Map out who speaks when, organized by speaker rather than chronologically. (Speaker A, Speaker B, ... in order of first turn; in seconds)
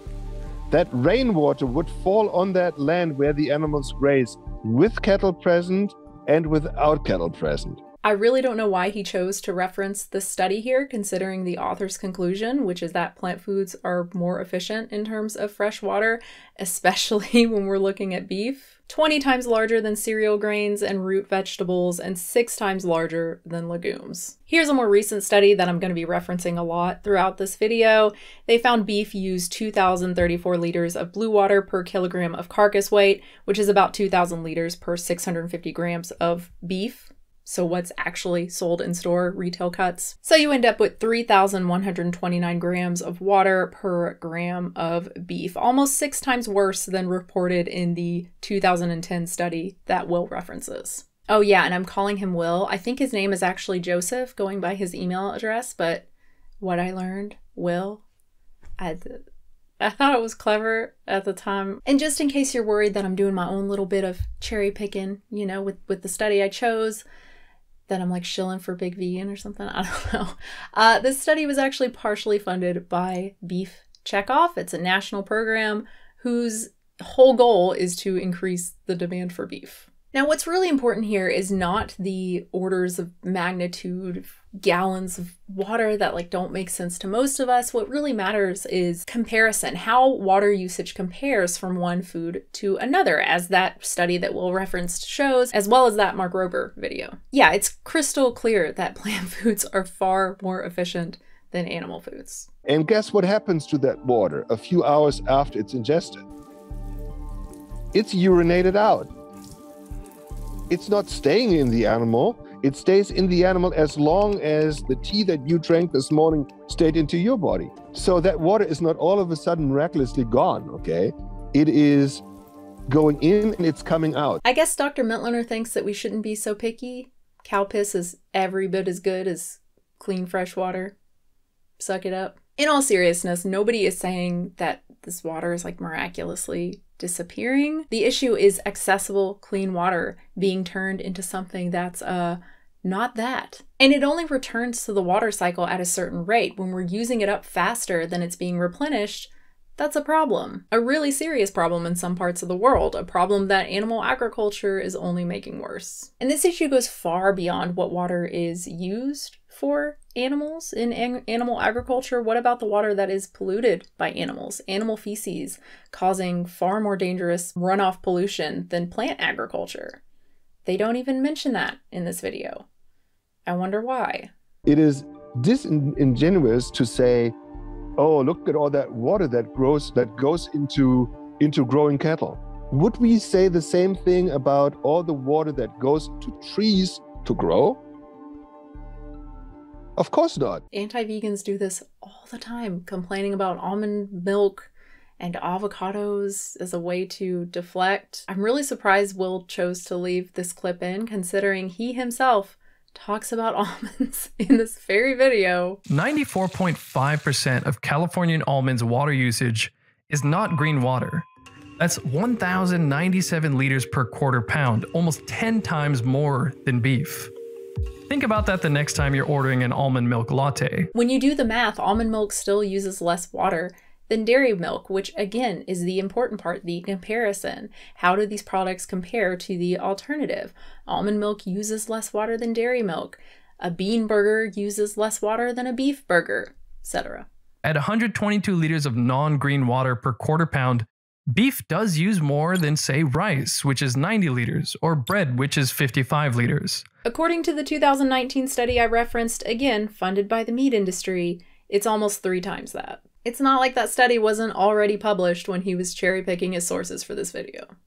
Speaker A: 0.7-7.8, 102.7-106.2, 107.9-109.1, 110.7-122.2, 122.9-124.4, 174.7-177.3, 178.0-187.8, 190.0-190.6
Speaker B: 8.0-56.0, 56.6-58.0, 58.8-59.2, 59.8-67.0, 67.9-102.5, 124.4-130.9, 131.8-170.0, 170.7-172.7, 173.4-174.3, 190.7-205.8, 220.9-237.2, 247.1-257.7
Speaker C: 205.9-211.2, 211.8-217.3, 218.1-220.9, 237.6-246.8